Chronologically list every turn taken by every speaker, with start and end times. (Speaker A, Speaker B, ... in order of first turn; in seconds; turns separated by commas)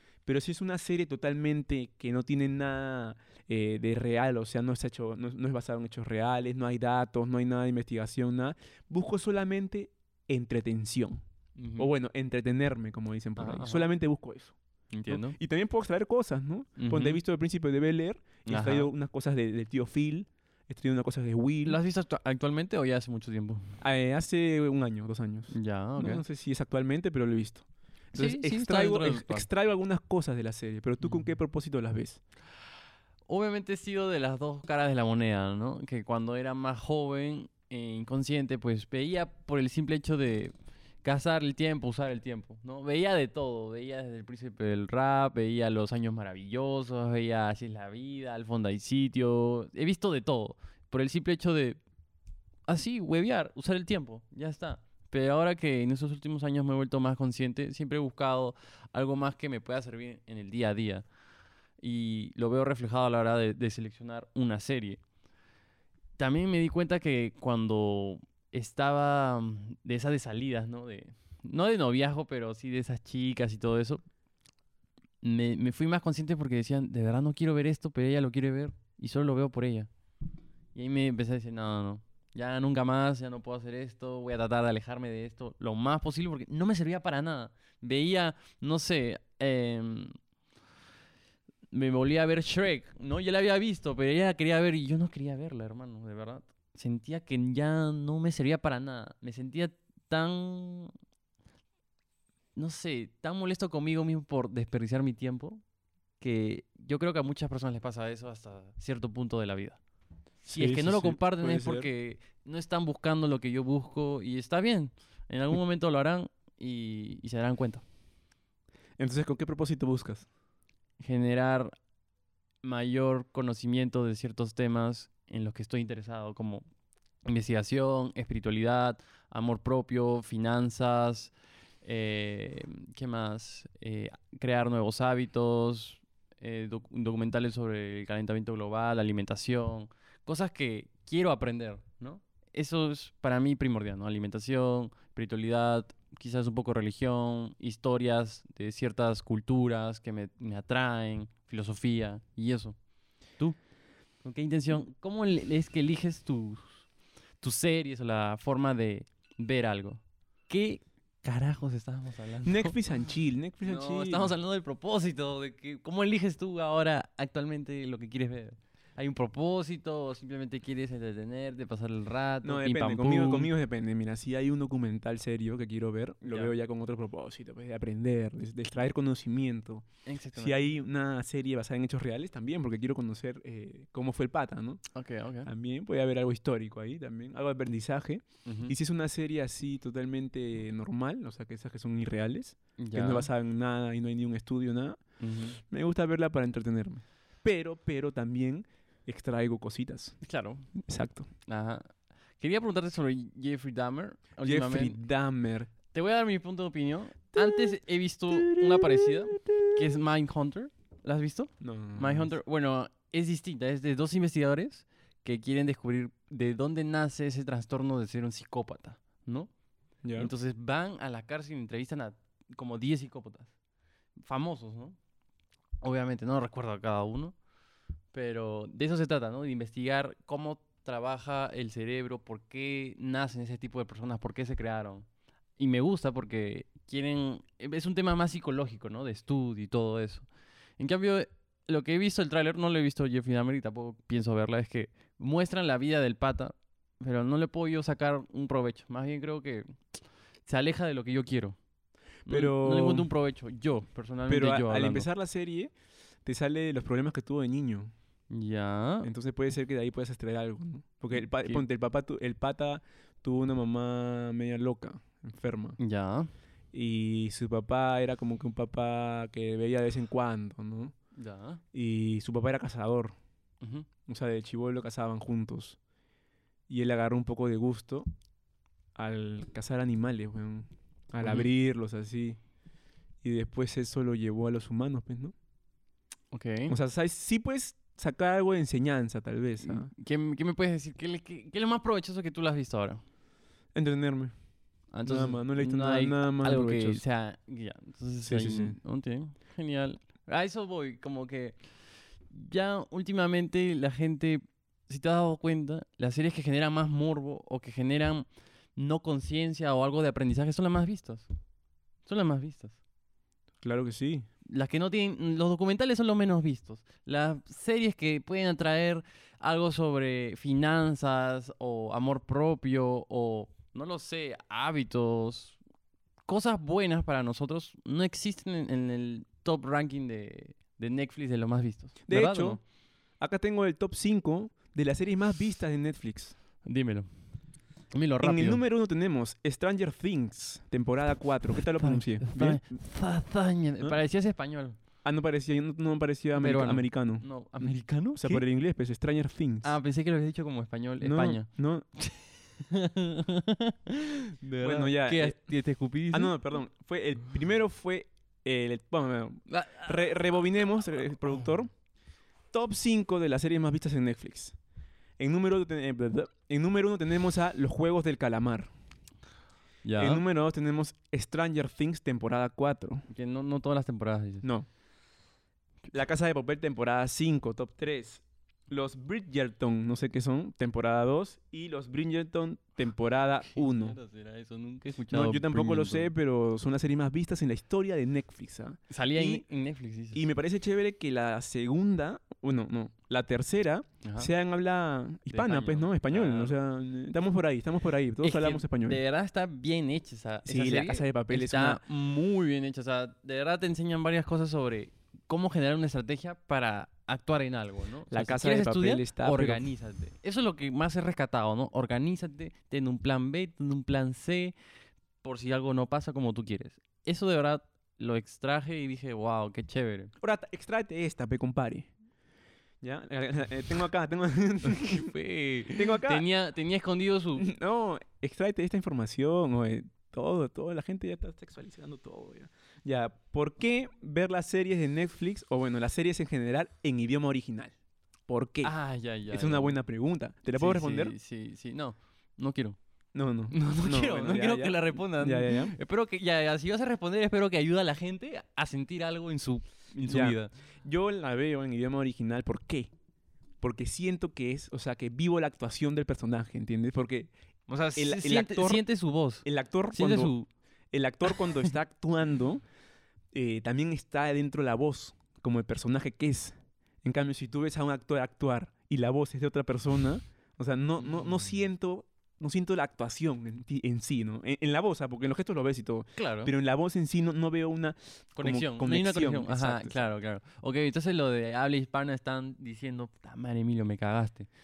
Speaker A: 0.2-11.2, Speaker B: 11.6-11.9, Speaker A: 11.8-14.6, Speaker B: 13.4-13.9, Speaker B: 14.9-15.4, Speaker A: 15.1-21.8, Speaker B: 16.8-17.2, Speaker B: 18.4-18.9, Speaker B: 21.6-23.7, Speaker A: 23.8-32.2, Speaker B: 25.5-26.2, Speaker B: 28.1-29.5, Speaker B: 31.0-31.3, Speaker B: 33.3-51.8, Speaker B: 52.7-61.0, Speaker B: 61.8-65.0, Speaker B: 66.2-74.0, Speaker B: 75.2-79.9, Speaker B: 80.7-90.1, Speaker B: 91.7-100.9, Speaker B: 102.5-105.6, Speaker B: 106.2-109.8, Speaker B: 110.4-117.8, Speaker A: 110.5-111.9, Speaker A: 119.0-120.2, Speaker B: 121.0-121.7, Speaker B: 122.6-126.6, Speaker B: 127.2-152.8, Speaker B: 154.2-156.8, Speaker B: 157.4-162.7, Speaker A: 162.4-164.3, Speaker B: 163.6-173.5, Speaker A: 172.4-184.8, Speaker B: 176.2-176.5, Speaker B: 180.1-180.6, Speaker B: 184.9-185.5, Speaker A: 185.4-195.0, Speaker B: 188.4-188.7, Speaker B: 192.8-193.3, Speaker B: 195.2-195.6, Speaker A: 195.7-200.2, Speaker B: 200.2-200.7, Speaker A: 200.8-201.3, Speaker B: 201.4-205.0, Speaker A: 204.4-205.7, Speaker B: 205.9-219.5, Speaker A: 207.3-207.7, Speaker A: 208.3-209.8, Speaker A: 211.6-212.3, Speaker A: 220.0-220.3, Speaker B: 220.2-223.5, Speaker B: 224.2-225.0, Speaker B: 225.8-227.3, Speaker B: 228.1-235.1, Speaker B: 235.6-240.3, Speaker B: 240.8-249.8, Speaker B: 250.4-251.6, Speaker A: 252.3-253.1, Speaker B: 252.3-255.1, Speaker A: 254.3-255.7, Speaker A: 256.2-257.9, Speaker B: 258.3-259.1, Speaker A: 259.0-265.8, Speaker B: 261.1-261.6, Speaker B: 265.8-266.3, Speaker A: 266.7-270.9, Speaker B: 271.1-271.6, Speaker A: 271.7-273.1, Speaker B: 273.6-273.9, Speaker A: 274.1-275.8, Speaker A: 276.7-278.1, Speaker A: 278.9-282.4, Speaker B: 281.2-281.5, Speaker A: 283.2-285.3, Speaker B: 286.3-286.7, Speaker A: 286.7-289.9, Speaker B: 289.6-293.0, Speaker A: 293.7-294.3, Speaker B: 294.9-301.6, Speaker A: 295.0-297.0, Speaker A: 298.2-298.8, Speaker B: 302.3-311.3, Speaker B: 312.1-312.8, Speaker A: 313.6-314.3, Speaker B: 314.4-325.6, Speaker B: 326.3-332.6, Speaker A: 332.1-332.6, Speaker A: 333.2-336.4, Speaker B: 336.6-337.1, Speaker B: 337.9-338.6, Speaker A: 338.2-342.6, Speaker B: 341.8-344.8, Speaker A: 345.0-347.2, Speaker B: 346.4-348.4, Speaker A: 348.1-349.7, Speaker B: 349.6-356.3, Speaker A: 351.0-351.9, Speaker A: 354.6-355.4, Speaker A: 356.1-361.7, Speaker B: 359.5-360.2, Speaker A: 362.5-364.6, Speaker A: 365.2-368.7, Speaker B: 369.8-370.2, Speaker A: 369.9-373.1, Speaker B: 373.1-374.4, Speaker A: 375.9-384.0, Speaker B: 383.4-386.1, Speaker A: 385.1-389.4, Speaker B: 388.9-390.2, Speaker A: 390.1-399.0, Speaker B: 394.0-394.3, Speaker B: 395.3-396.6, Speaker B: 398.2-414.5, Speaker A: 400.4-401.8, Speaker A: 408.1-409.7, Speaker B: 415.2-420.1, Speaker A: 420.2-421.9, Speaker A: 422.8-425.1, Speaker B: 424.6-427.5, Speaker A: 425.7-426.2, Speaker A: 427.4-437.7, Speaker A: 438.3-438.7, Speaker B: 438.6-439.8, Speaker A: 439.3-441.1, Speaker B: 440.6-442.8, Speaker A: 443.1-445.7, Speaker B: 443.5-450.5, Speaker A: 450.0-452.9, Speaker A: 453.6-457.3, Speaker B: 457.7-460.5, Speaker A: 457.9-458.8, Speaker A: 459.4-460.3, Speaker A: 460.9-462.6, Speaker B: 461.3-461.6, Speaker A: 463.3-480.0, Speaker B: 471.0-471.3, Speaker B: 476.2-476.5, Speaker B: 478.4-484.5